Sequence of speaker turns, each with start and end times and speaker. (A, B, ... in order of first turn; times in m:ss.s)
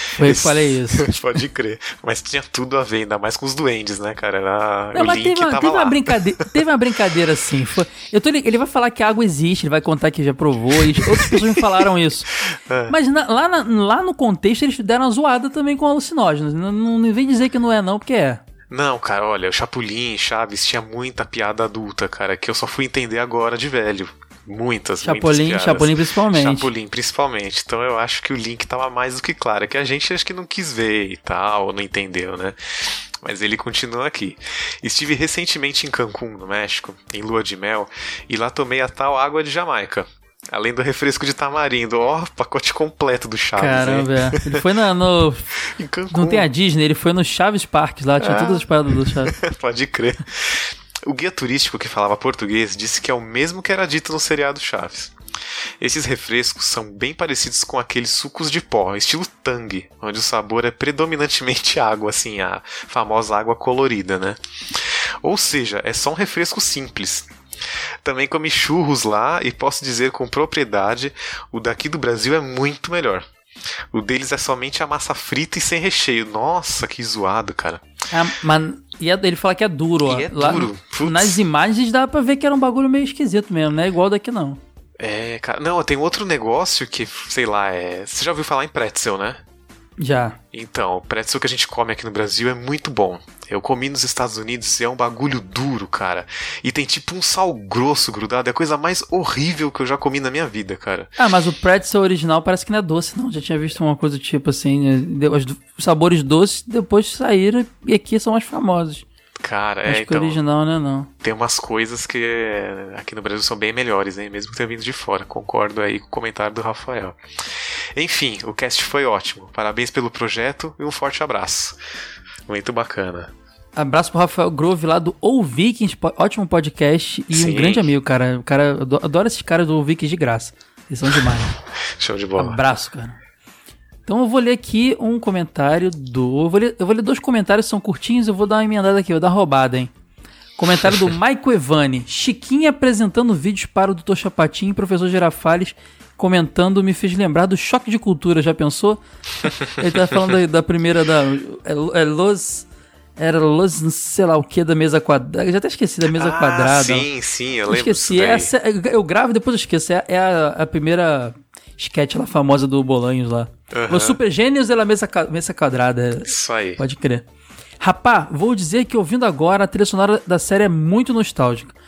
0:00.2-0:01.1 A
0:00.2-0:06.4 B
0:04.9-0:12.3 A
0:10.9-0:11.8 B
0:12.3-0:13.0 B
0:12.9-0:18.4 A
0:18.7-0:44.6 B
0:25.0-0:26.7 A
0:43.6-0:45.5 A
0:45.7-0:46.5 B
0:46.1-0:49.3 A
0:48.2-0:55.2 B
0:55.8-1:07.3 B
1:08.0-1:13.3 B
1:13.9-1:17.8 B
1:18.1-1:24.6 A
1:20.0-1:21.4 B
1:25.0-1:29.4 B
1:30.0-1:30.4 A
1:30.5-1:41.1 B
1:41.2-1:49.0 A
1:49.4-1:50.4 B
1:49.9-1:51.1 A
1:51.2-2:01.8 B
2:02.5-2:03.3 B
2:03.8-2:11.6 A
2:07.3-2:07.9 B
2:12.0-2:12.6 B
2:12.4-2:13.2 A
2:14.1-2:19.9 A
2:20.6-2:32.7 A
2:33.2-2:37.1 A
2:36.0-2:38.5 B
2:37.7-2:47.2 A
2:43.7-2:44.2 B
2:46.3-2:46.8 B
2:47.8-2:51.7 A